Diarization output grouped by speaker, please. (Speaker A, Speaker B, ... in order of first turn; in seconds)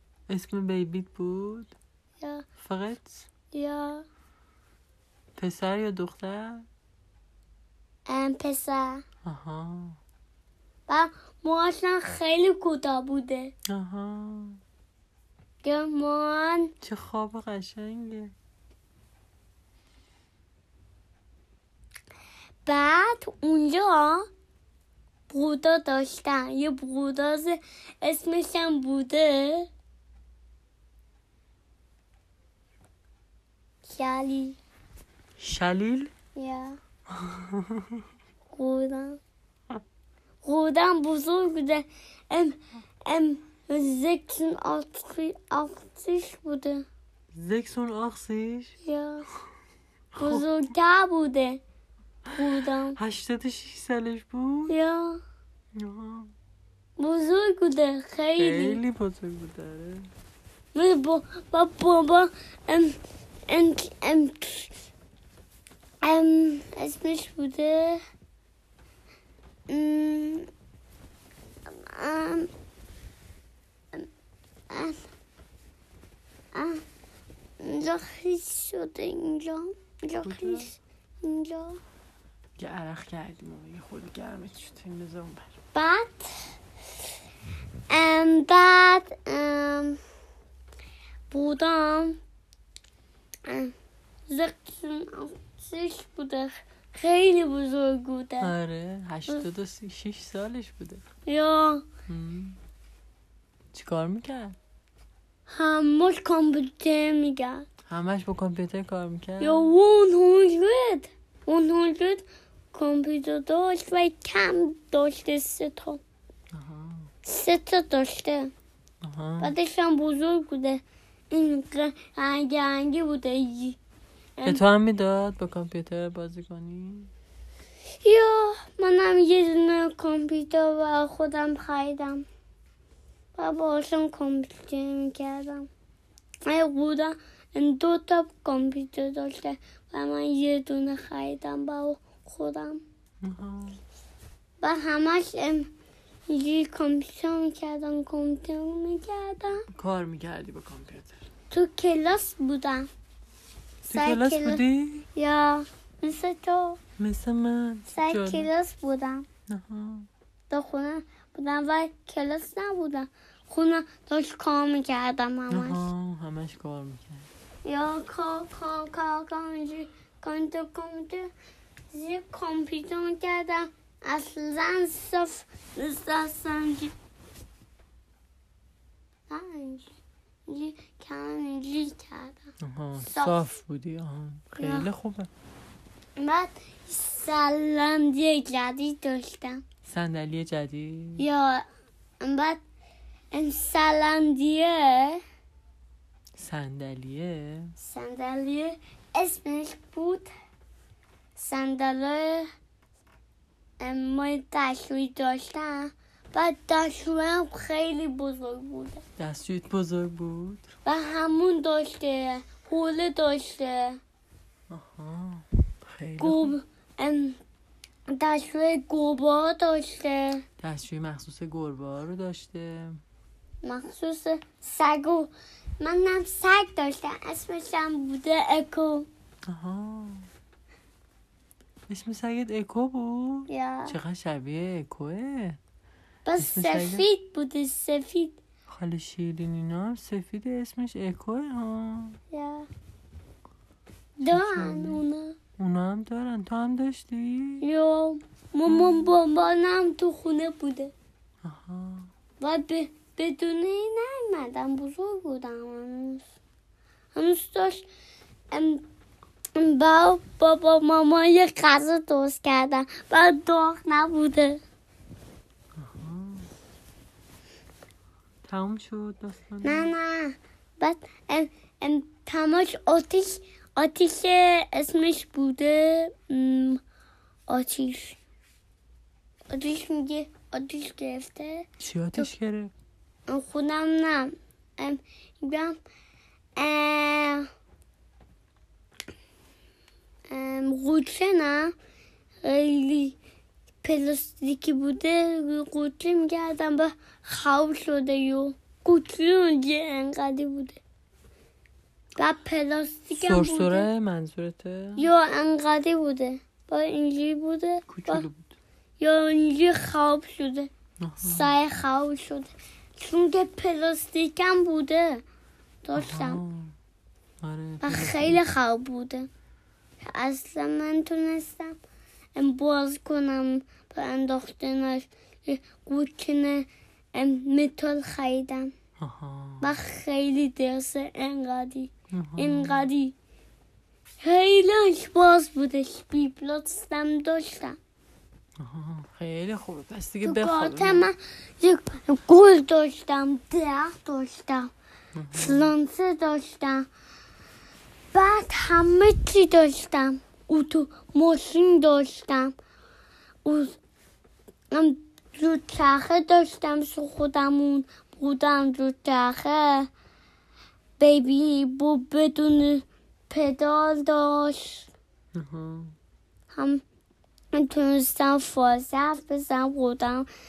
Speaker A: 0.3-1.7, 2.6-3.3, 5.4-6.7, 9.2-10.0, 13.7-14.6, 16.8-18.3, 35.4-36.1, 37.1-38.0, 47.3-48.7, 50.1-50.5, 53.0-54.7, 55.8-56.3, 58.4-60.1, 80.2-80.7, 82.6-85.5, 98.4-101.0, 102.1-102.6, 103.7-104.6, 107.9-109.7, 116.5-117.1, 119.0-119.5, 124.4-127.1, 143.2-143.8, 149.7-151.2, 153.9-155.1, 157.0-158.5, 159.5-160.1, 165.5-167.3, 182.6-185.3, 189.8-191.2, 196.3-197.7, 209.2-210.7, 214.7-216.5, 220.6-223.0, 229.5-230.3, 231.9-235.6, 236.4-237.1, 238.7-242.2, 244.3-245.0, 245.6-247.6, 248.7-249.2, 251.4-252.1, 265.8-266.5, 268.4-269.9, 281.8-282.7, 303.1-305.1, 307.9-308.5, 311.0-311.5, 315.9-316.7, 317.4-318.4, 329.0-329.7, 332.1-332.9, 338.6-341.1, 345.1-345.7, 365.3-365.9
Speaker B: 3.5-4.0, 8.1-9.0, 10.9-13.5, 15.6-16.7, 22.6-24.2, 25.3-29.7, 33.9-34.6, 36.3-36.8, 38.5-39.2, 40.4-46.8, 48.8-49.2, 50.2-51.6, 52.3-53.0, 54.7-55.2, 57.0-58.8, 60.7-64.7, 66.0-68.0, 69.7-70.5, 71.7-72.5, 74.7-75.1, 76.5-76.8, 77.6-81.8, 85.7-86.3, 87.9-90.0, 91.3-92.2, 93.5-93.7, 94.3-98.5, 101.2-101.8, 105.5-107.6, 109.4-116.0, 117.2-118.5, 119.4-123.8, 124.4-124.6, 128.0-132.2, 133.3-135.7, 136.4-142.8, 144.6-145.7, 146.3-149.7, 151.5-152.9, 153.9-154.6, 155.1-156.8, 157.9-159.2, 160.5-165.8, 167.6-171.3, 171.9-176.9, 179.3-179.9, 180.5-182.4, 183.0-183.5, 184.5-184.9, 186.2-189.6, 191.2-191.6, 192.2-192.6, 193.3-195.2, 197.8-200.3, 201.3-202.5, 203.8-209.0, 210.8-214.0, 216.2-217.4, 218.1-220.4, 223.6-229.1, 233.5-234.0, 236.2-238.4, 242.3-242.7, 244.2-245.3, 247.6-250.9, 252.4-256.2, 257.1-257.9, 258.5-258.8, 259.6-264.6, 269.6-276.8, 277.5-278.2, 279.5-282.3, 283.3-285.8, 286.6-287.5, 290.3-291.7, 292.4-293.2, 293.8-300.8, 302.2-303.9, 305.0-308.2, 309.0-310.7, 311.2-315.2, 315.8-316.4, 317.8-319.3, 320.0-321.8, 322.3-328.7, 329.6-333.1, 334.2-337.8, 340.2-344.7, 345.3-346.9, 348.1-352.5, 353.4-353.8, 354.7-359.9, 361.0-364.9, 366.5-366.8, 367.5-370.3